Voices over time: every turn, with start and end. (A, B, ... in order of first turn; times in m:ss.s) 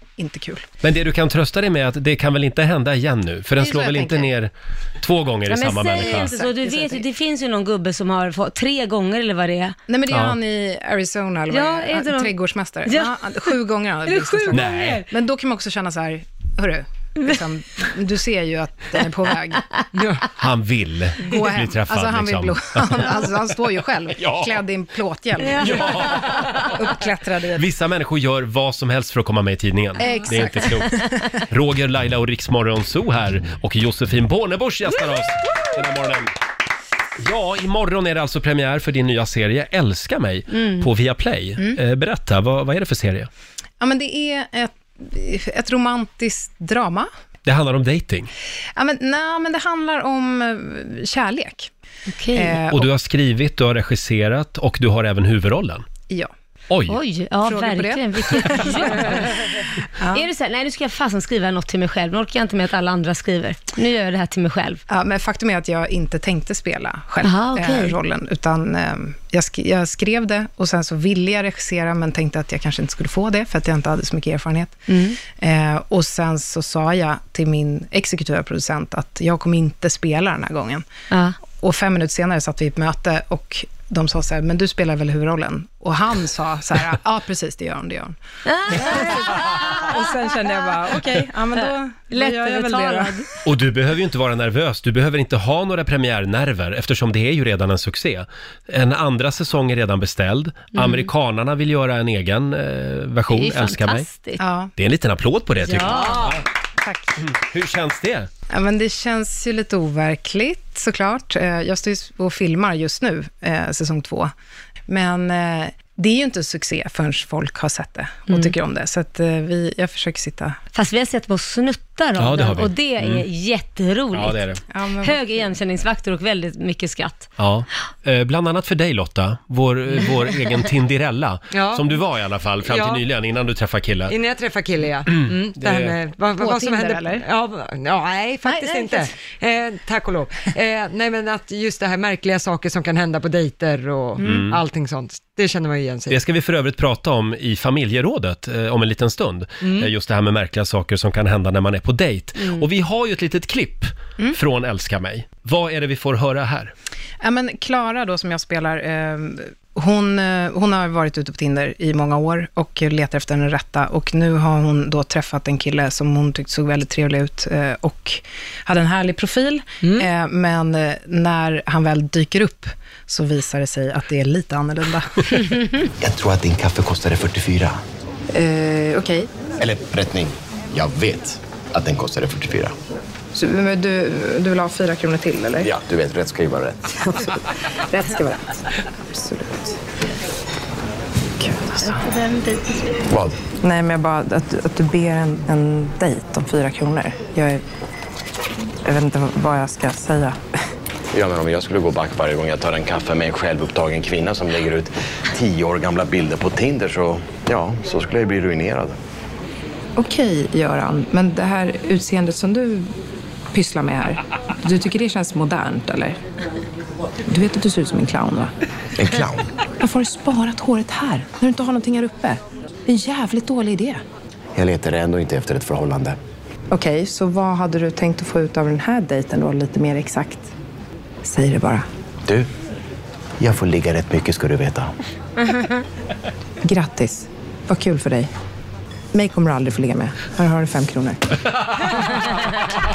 0:00.2-0:00.7 A
0:00.8-0:06.3 B
0:03.6-0:04.3 A
0:05.5-0:09.8 C
0:05.9-0:07.0 A
0:09.9-0:19.6 A
0:10.1-0:10.4 B
0:11.5-0:12.3 C
0:12.9-0:13.5 C
0:14.1-0:14.4 C
0:14.5-0:15.0 B
0:19.9-0:20.3 D
0:20.4-0:23.1 B
0:21.2-0:27.7 A
0:24.1-0:24.6 B
0:25.6-0:26.8 B
0:27.6-0:36.3 B
0:30.0-0:31.4 A
0:37.2-0:43.3 B
0:40.5-0:40.9 C
0:43.8-0:47.1 A
0:47.5-0:48.3 B
0:48.8-0:51.7 A
0:52.1-0:52.6 C
0:52.3-0:52.9 A
0:52.7-0:55.8 B
0:56.7-0:57.0 B
0:56.9-1:04.8 C
0:57.4-0:59.4 A
1:00.0-1:00.3 A
1:04.9-1:20.9 A
1:07.2-1:08.0 C
1:14.9-1:15.2 C
1:21.1-1:21.4 C
1:21.6-1:28.2 A
1:28.5-1:30.0 C
1:28.7-1:33.2 A
1:31.6-1:33.3 C
1:33.4-1:44.1 B
1:40.8-1:41.1 C
1:43.3-1:44.4 C
1:44.4-1:44.7 A
1:44.8-1:46.4 B
1:45.8-1:46.3 C
1:45.8-1:46.3 D
1:46.0-1:47.2 A
1:47.2-1:48.3 B
1:48.5-1:54.3 A
1:54.9-2:00.6 A
1:58.3-1:58.5 C
2:00.7-2:04.5 C
2:02.2-2:03.2 B
2:04.1-2:04.6 B
2:04.7-2:05.5 A
2:05.0-2:07.3 C
2:07.4-2:14.1 B
2:11.5-2:11.9 D
2:12.6-2:13.1 D
2:14.1-2:26.2 D
2:15.1-2:16.0 B
2:16.4-2:17.3 A
2:24.2-2:24.6 B
2:26.1-2:36.7 B
2:29.6-2:29.9 D
2:37.2-2:55.7 A
2:56.0-2:57.8 E
2:58.3-2:59.3 A
2:59.6-3:02.8 E
3:03.3-3:05.7 A
3:05.6-3:07.0 E
3:07.0-3:09.8 A
3:11.4-3:12.1 A
3:11.9-3:13.0 C
3:13.1-3:13.4 E
3:13.6-3:17.6 A
3:18.8-3:20.4 A
3:21.1-3:29.0 E
3:30.0-3:33.0 A
3:33.5-3:36.2 A
3:37.3-3:38.5 A
3:39.0-3:39.4 E
3:39.8-3:44.0 A
3:44.6-3:46.2 E
3:46.7-3:50.5 A
3:51.2-3:51.9 A
3:53.4-3:54.9 E
3:56.6-3:58.3 A
3:59.1-4:01.4 A